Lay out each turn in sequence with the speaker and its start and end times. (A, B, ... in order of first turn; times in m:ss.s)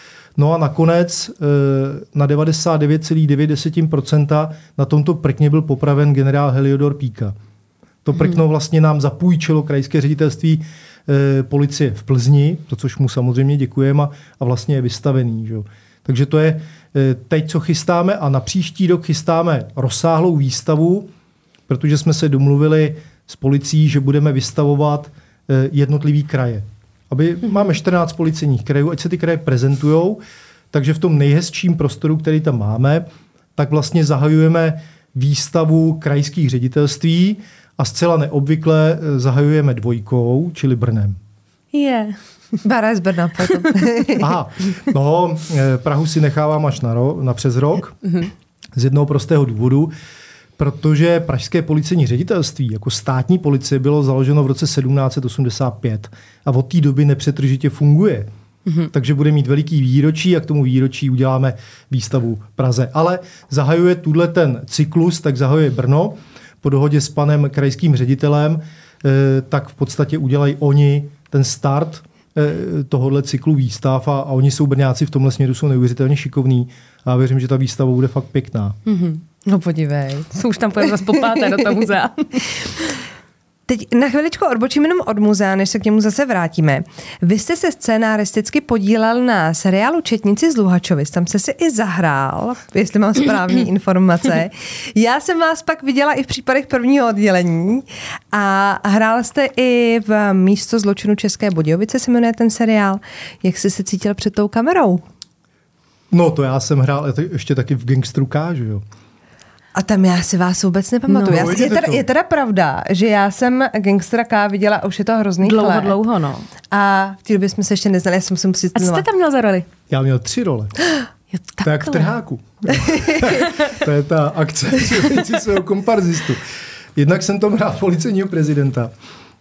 0:00.4-0:07.4 A
0:08.0-0:21.1 A
0:21.7-0:30.2 A
0:30.7-0:33.0 A
0:33.6-0:41.2 A
0:41.7-0:42.2 B
0:42.6-0:44.3 C
0:44.2-0:48.0 A
0:48.8-0:49.9 A
0:50.6-0:58.3 A
0:58.9-1:18.8 A
1:18.9-1:19.2 B
1:19.4-1:20.3 C
1:20.3-1:23.0 B
1:23.7-1:45.0 C
1:46.1-1:48.8 A
1:49.8-1:56.0 C
1:51.1-1:52.0 A
1:55.4-1:56.5 B
1:56.7-1:59.1 C
1:58.8-1:59.7 B
1:59.9-2:00.7 A
2:01.4-2:02.1 B
2:01.6-2:06.4 A
2:02.9-2:03.2 C
2:07.0-2:08.9 A